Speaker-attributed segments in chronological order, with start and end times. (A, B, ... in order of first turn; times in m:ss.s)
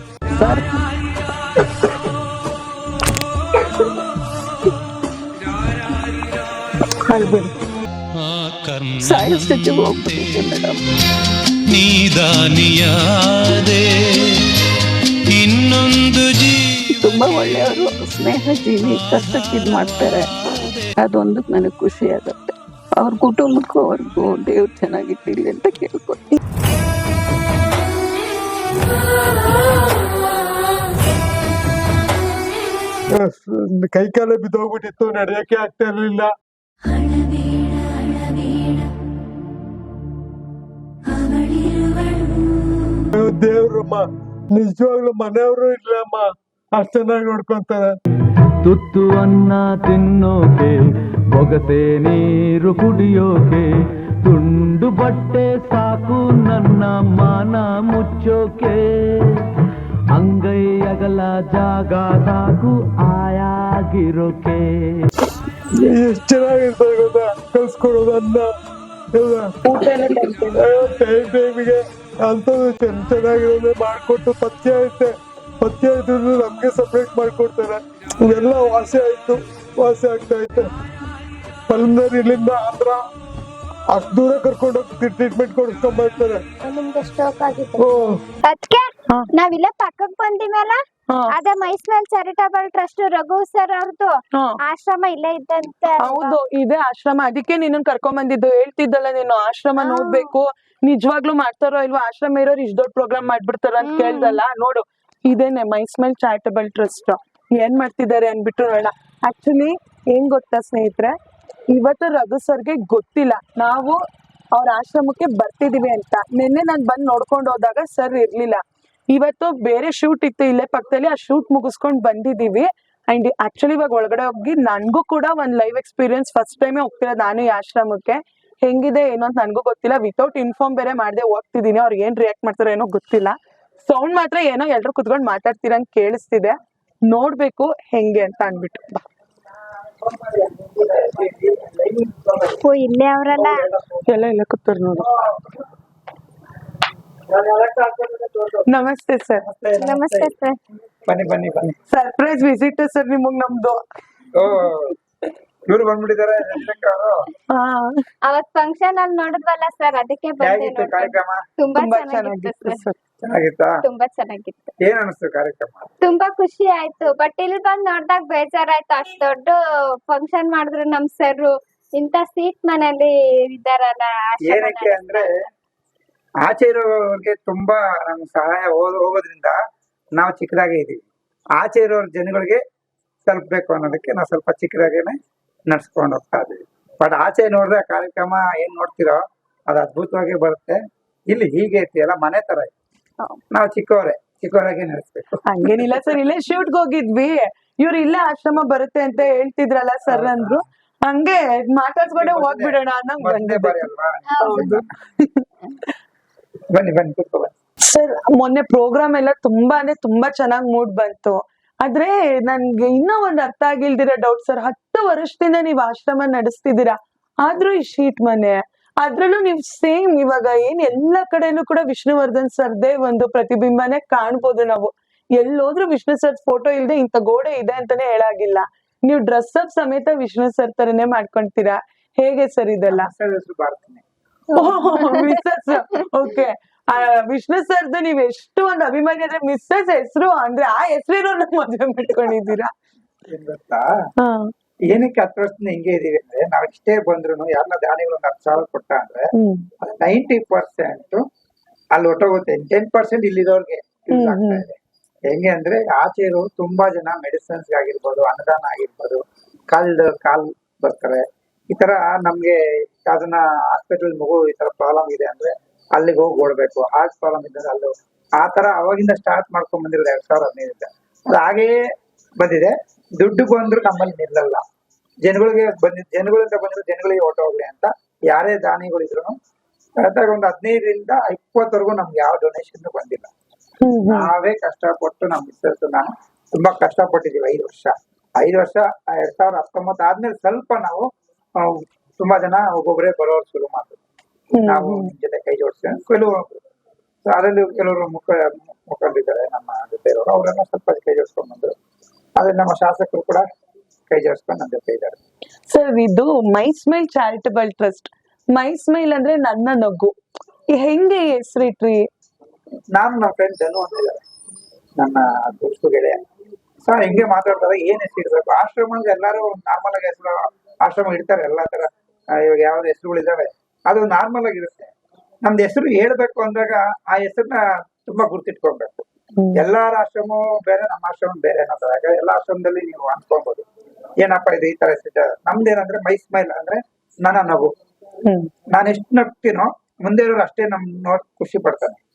0:00.4-0:00.6 A
0:07.1-0:07.5 B
0:08.2-0:10.3 C
0:09.0-0:10.8 A
0:11.7-0:14.6 C
0:15.3-0:17.0 C
0:17.0-0:20.3 A
0:18.9-0:20.9 C
0:21.0-0:26.3 A
0:33.1-0:36.3 D
0:36.8-0:38.9 E
0:41.1-0:43.1 E
0:43.1-0:47.9 D
0:48.6-0:50.8 C
0:51.3-0:53.7 C
0:54.2-0:59.5 C
1:00.1-1:05.1 C
1:05.8-1:08.5 D
1:09.1-1:09.5 D
1:09.6-1:10.6 B
1:10.5-1:20.7 D
1:21.7-1:23.0 D
1:23.9-1:26.4 D
1:26.6-1:27.8 E
1:27.8-1:28.2 D
1:28.4-1:36.4 E
1:31.1-1:31.4 B
1:36.0-1:51.2 B
1:39.8-1:40.3 E
1:43.8-1:44.4 E
1:51.7-1:54.0 B
1:54.5-2:19.0 B
2:20.0-2:22.6 F
2:22.6-2:23.7 E
2:23.3-2:24.1 F
2:24.1-2:25.1 B
2:25.0-2:25.6 F
2:27.3-2:28.8 F
2:28.7-2:29.4 B
2:29.4-2:30.3 F
2:29.8-2:30.6 E
2:31.1-2:31.8 F
2:31.9-2:33.8 B
2:34.3-2:35.0 F
2:35.7-2:37.2 F
2:37.5-2:38.0 B
2:38.2-2:42.8 E
2:40.4-2:41.4 F
2:41.8-2:43.0 B
2:43.2-2:43.8 F
2:43.8-2:44.8 E
2:44.8-2:45.9 F
2:46.0-2:49.6 E
2:50.1-2:55.3 E
2:54.4-2:55.3 F
2:56.4-2:59.6 F
3:00.2-3:01.0 F
3:01.6-3:02.6 F
3:03.3-3:05.2 F
3:05.7-3:12.7 F
3:13.5-3:16.1 F
3:15.5-3:23.9 B
3:20.1-3:20.6 F
3:22.2-3:24.9 F
3:24.3-3:24.8 E
3:24.4-3:25.5 B
3:26.7-3:27.5 F
3:27.9-3:53.1 B
3:52.9-3:54.0 F
3:54.5-4:02.7 B
4:03.3-4:03.9 F
4:04.2-4:04.5 B
4:04.9-4:09.3 F
4:09.4-4:09.7 B
4:09.8-4:11.3 F
4:11.9-4:14.8 F
4:14.1-4:14.6 B
4:15.3-4:31.8 F
4:32.4-4:34.6 F
4:35.2-4:39.4 F
4:40.0-4:43.3 F
4:43.8-4:44.3 B
4:44.1-4:54.0 F
4:54.5-4:55.1 B
4:54.6-4:56.6 F
4:57.2-5:01.7 F
5:02.4-5:03.4 F
5:04.1-5:05.2 F
5:05.7-5:10.1 B
5:10.7-5:12.1 B
5:12.9-5:14.2 F
5:15.0-5:16.2 F
5:16.8-5:24.9 F
5:25.4-5:33.7 F
5:34.2-5:37.7 F
5:38.2-5:38.5 B
5:38.7-5:42.0 F